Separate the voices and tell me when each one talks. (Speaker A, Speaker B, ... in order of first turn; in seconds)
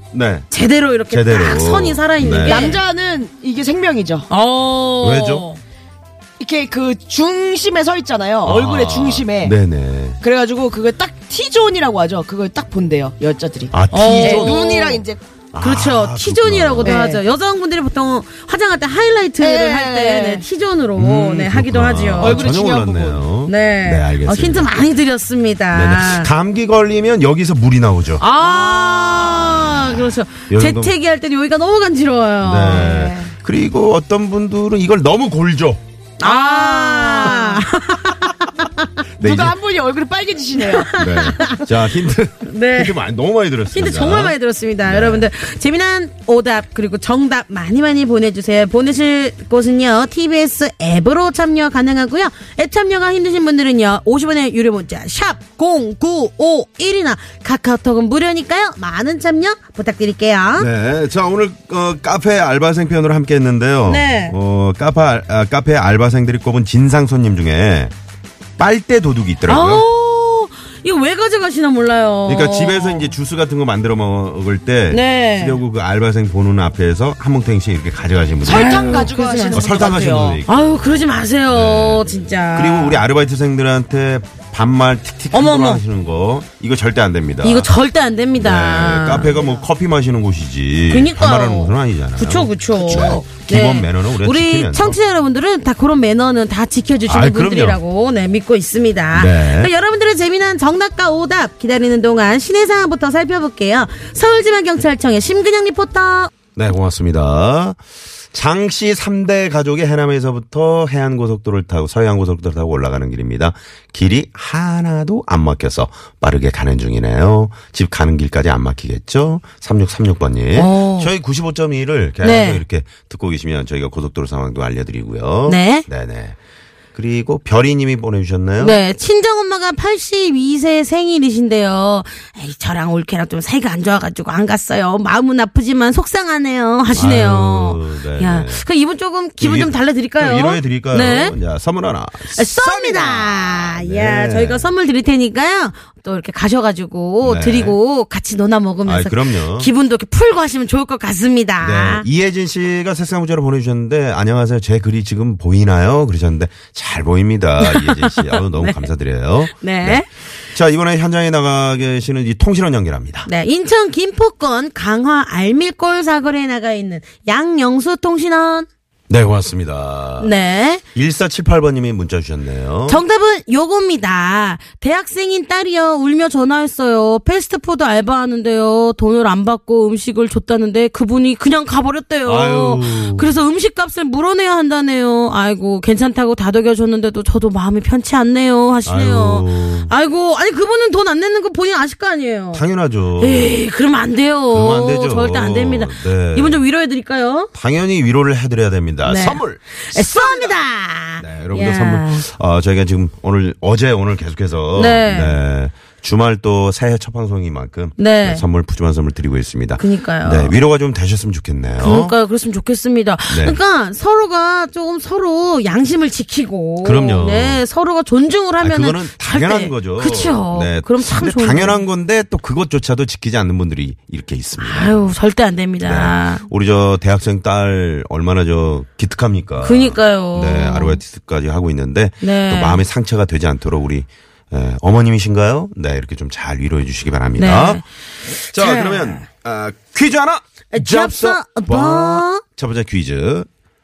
Speaker A: 0.1-0.5, 1.1-2.8, 5.0-5.5, 8.4-10.2, 13.7-14.7, 15.5-17.1, 21.0-24.8, 25.7-28.2, 29.2-29.9, 30.5-30.9, 32.4-35.8, 39.2-39.5, 40.9-45.3, 60.5-67.9, 68.6-69.8, 72.2-80.7, 81.5-87.7, 88.4-95.0, 97.1-97.8, 99.1-99.7, 106.6-107.8, 108.3-126.4, 127.0-128.8, 136.9-138.6, 139.4-144.7, 147.2-147.8, 148.8-149.7, 151.6-163.3, 169.1-170.3, 170.9-173.0, 182.2-183.3, 188.9-189.9, 192.5-193.6, 194.5-196.6, 197.5-200.6, 201.2-212.2, 213.3-213.6, 216.8-217.6, 218.6-225.0, 225.8-237.8, 238.5-243.5
Speaker B: 0.5-2.8, 4.3-5.6, 13.9-15.0, 15.6-22.4, 23.4-26.3, 28.2-33.1, 36.2-38.9, 40.8-41.6, 42.5-43.0, 43.7-60.7, 63.9-64.4, 69.5-73.1, 74.9-75.6, 78.5-79.9, 80.4-83.0, 85.3-85.8, 87.4-89.5, 90.9-106.3, 120.5-121.1, 122.2-122.6, 125.5-125.8, 128.6-141.4, 142.3-152.1, 157.6-158.9, 159.5-160.1, 163.2-168.7, 170.2-170.8, 172.9-192.7, 193.2-197.5, 199.0-202.2, 204.7-205.4, 208.0-208.4, 209.8-210.6, 211.8-221.8, 224.6-226.4, 229.6-231.0, 232.2-232.8, 237.4-237.8, 238.5-239.2, 240.7-242.4
Speaker C: 2.3-4.2, 6.4-9.5, 10.2-15.2, 16.8-17.2, 19.4-20.4, 22.2-23.2, 32.9-33.3, 36.2-37.6, 39.2-40.9, 78.4-80.4